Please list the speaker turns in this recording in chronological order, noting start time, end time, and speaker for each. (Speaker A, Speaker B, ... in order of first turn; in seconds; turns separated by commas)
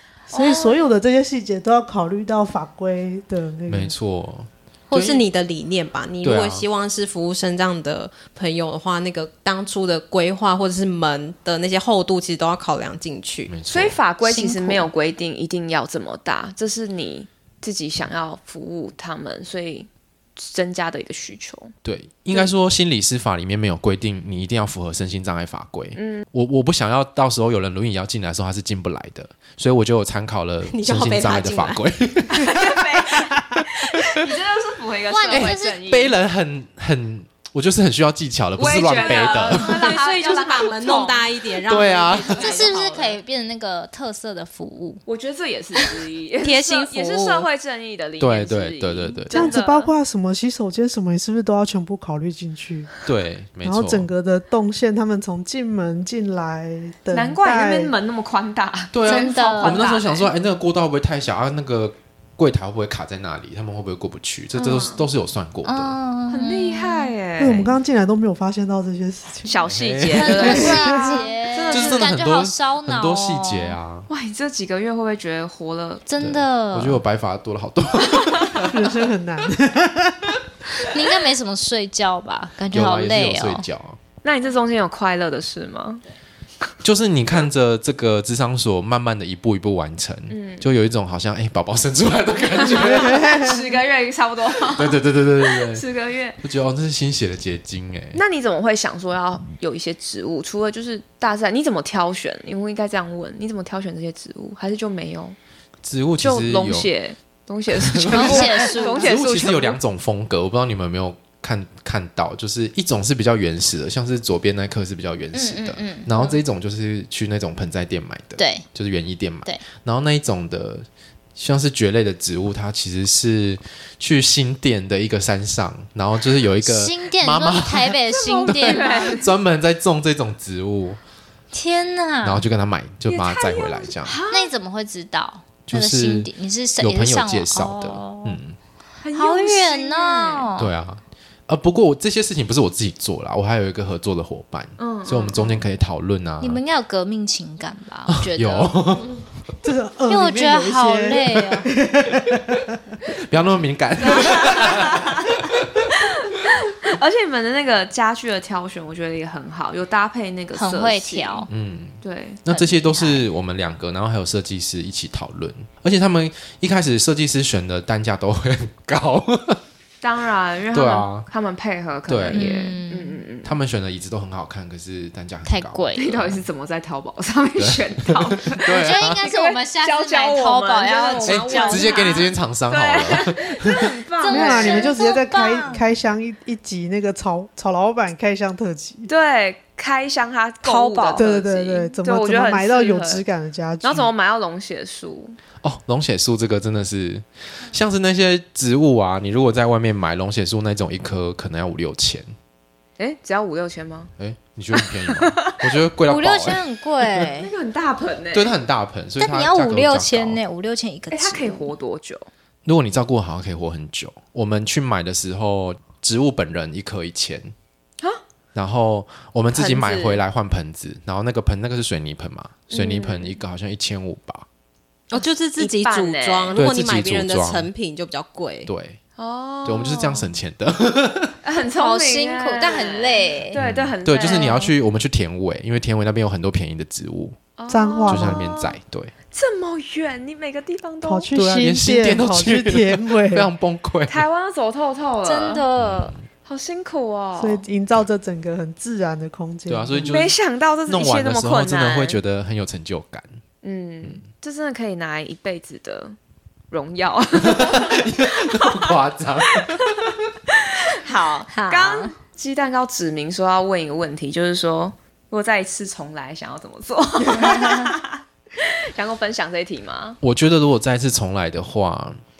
Speaker A: 0.3-0.8, Speaker B: 0.3-3.9, Speaker C: 3.7-5.2, Speaker D: 4.9-13.5, Speaker C: 6.2-6.6, Speaker C: 13.5-14.0, Speaker A: 13.7-21.7, Speaker C: 21.8-32.5, Speaker A: 25.9-26.2, Speaker D: 30.6-31.8, Speaker A: 32.3-36.1, Speaker E: 35.1-35.8, Speaker C: 35.3-39.9, Speaker A: 38.6-43.2, Speaker D: 39.0-42.8, Speaker C: 41.7-42.5, Speaker E: 42.4-45.0, Speaker A: 45.1-49.9, Speaker D: 46.4-47.5, Speaker C: 48.2-49.5, Speaker B: 49.3-53.0, Speaker C: 53.0-54.1, Speaker B: 53.6-57.9, Speaker A: 57.1-60.3, Speaker C: 58.9-66.0, Speaker E: 59.0-60.0, Speaker A: 64.5-65.0, Speaker E: 65.6-67.1, Speaker A: 66.3-67.7, Speaker B: 67.4-69.6, Speaker A: 69.5-72.1, Speaker C: 69.7-70.7, Speaker E: 70.1-73.8, Speaker B: 70.3-71.3, Speaker C: 71.7-74.1, Speaker A: 74.1-76.1, Speaker E: 76.1-77.0, Speaker C: 76.2-78.8, Speaker A: 78.2-78.6, Speaker B: 78.6-80.4, Speaker E: 80.8-83.7, Speaker C: 82.7-84.0, Speaker A: 84.2-86.0, Speaker C: 86.8-93.3, Speaker A: 90.3-90.7, Speaker A: 92.6-96.4, Speaker B: 92.9-93.6, Speaker C: 94.7-95.8, Speaker C: 96.4-98.2, Speaker A: 98.1-105.3, Speaker C: 105.8-106.9, Speaker A: 106.2-109.8, Speaker C: 107.8-131.0, Speaker E: 108.1-109.1, Speaker E: 115.3-116.1, Speaker E: 118.4-118.7, Speaker E: 126.6-129.2, Speaker A: 128.1-129.3, Speaker E: 131.5-132.4, Speaker C: 132.2-134.2, Speaker A: 133.1-134.5, Speaker E: 134.3-138.4, Speaker C: 135.7-138.6, Speaker A: 139.0-140.5, Speaker E: 139.1-140.7, Speaker C: 140.6-146.6, Speaker A: 144.8-145.6, Speaker E: 146.4-148.8, Speaker C: 148.1-149.1, Speaker B: 149.6-152.6, Speaker E: 150.1-151.7, Speaker C: 152.3-152.6, Speaker C: 153.2-155.9, Speaker A: 154.0-161.5, Speaker E: 160.5-161.5, Speaker C: 161.5-169.6, Speaker A: 162.0-162.5, Speaker E: 162.5-163.2, Speaker A: 170.0-173.5, Speaker C: 170.7-171.3, Speaker C: 172.1-172.4, Speaker E: 172.3-173.2, Speaker C: 173.4-176.4, Speaker E: 175.4-176.2, Speaker A: 175.9-184.9, Speaker C: 177.6-179.2, Speaker E: 178.7-182.3, Speaker C: 181.2-183.9, Speaker E: 184.2-185.9, Speaker B: 184.3-189.1, Speaker A: 189.1-193.2, Speaker E: 190.6-191.3, Speaker B: 191.2-194.1, Speaker A: 193.8-195.4, Speaker C: 195.6-202.3, Speaker A: 203.0-204.1, Speaker C: 204.2-206.6, Speaker E: 206.0-207.5, Speaker A: 207.2-208.5, Speaker C: 208.3-210.4, Speaker E: 209.2-211.7, Speaker A: 211.1-212.3, Speaker C: 212.6-217.5, Speaker C: 218.5-224.4, Speaker A: 219.5-220.2, Speaker A: 222.7-223.3, Speaker D: 225.1-228.7, Speaker A: 225.6-226.6, Speaker C: 226.6-227.7, Speaker C: 228.7-229.0, Speaker A: 229.2-230.3, Speaker C: 229.6-231.4, Speaker A: 231.4-234.7, Speaker E: 231.7-233.6, Speaker C: 233.5-237.4, Speaker E: 234.3-234.6, Speaker A: 237.6-238.7, Speaker B: 237.7-238.5, Speaker C: 238.1-239.1, Speaker A: 239.3-241.3, Speaker B: 241.0-243.5, Speaker C: 241.3-244.2, Speaker A: 244.1-245.6, Speaker E: 245.2-246.1, Speaker C: 245.8-246.2, Speaker A: 246.4-247.6, Speaker B: 247.4-250.2, Speaker C: 249.7-250.3, Speaker A: 250.1-252.2, Speaker C: 250.9-253.4, Speaker A: 253.6-256.2, Speaker A: 256.7-258.9, Speaker C: 257.4-260.1, Speaker A: 259.6-270.2, Speaker E: 261.5-262.1, Speaker E: 267.4-267.9, Speaker C: 270.2-272.2